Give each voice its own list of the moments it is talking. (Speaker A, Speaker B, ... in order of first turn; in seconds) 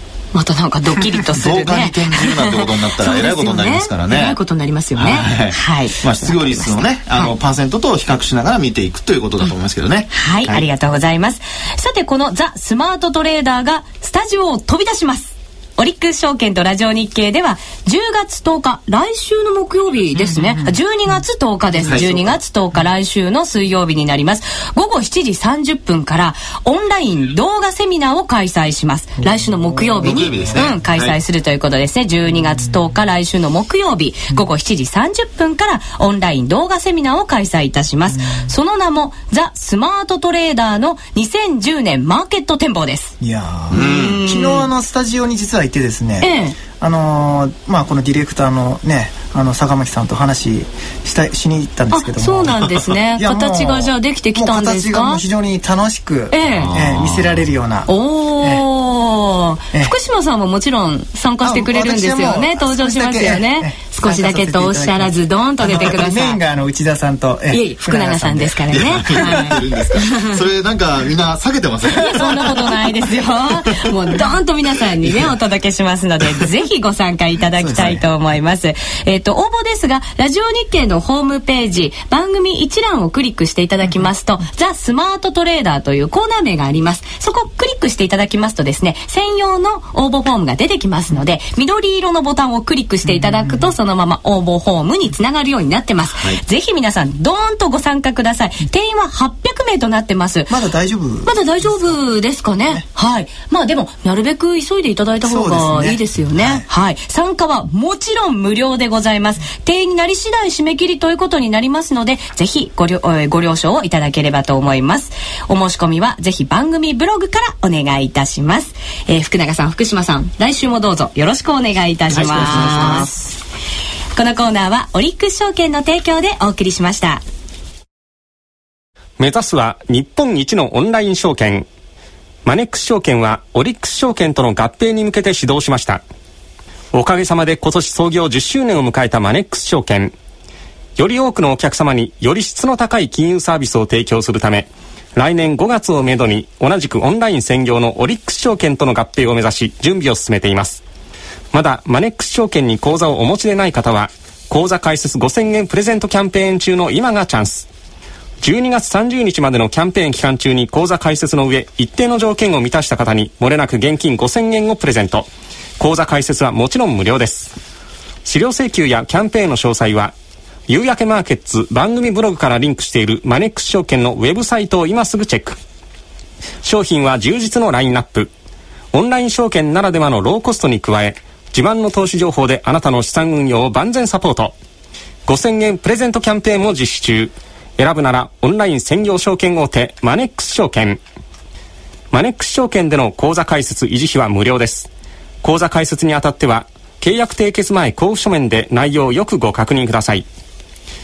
Speaker A: 0.3-7.3, 10.1-43.1, 43.7-44.7, 46.2-46.6, 51.9-55.2, 56.3-56.7, 57.9-66.4, 67.5-70.2, 72.0-100.5, 101.2-123.4, 124.2-127.2
Speaker B: 1.4-4.4, 5.0-10.7, 21.9-22.4, 30.0-31.2, 43.8-44.2, 56.5-57.5, 68.7-73.9, 96.1-96.4, 122.1-123.1
Speaker C: 20.2-20.8, 29.2-30.7, 38.1-38.5, 43.2-52.6, 53.1-58.6, 61.4-69.6, 77.6-78.0, 93.0-93.7, 100.5-102.1, 105.2-106.7
Speaker D: 129.2-131.7, 132.4-136.0, 136.9-140.1, 141.0-150.8, 151.5-157.7, 158.4-165.3, 165.8-167.5, 168.3-170.1, 170.7-175.6, 176.6-178.3, 178.9-184.5, 185.3-191.0, 192.1-194.9, 195.4-200.2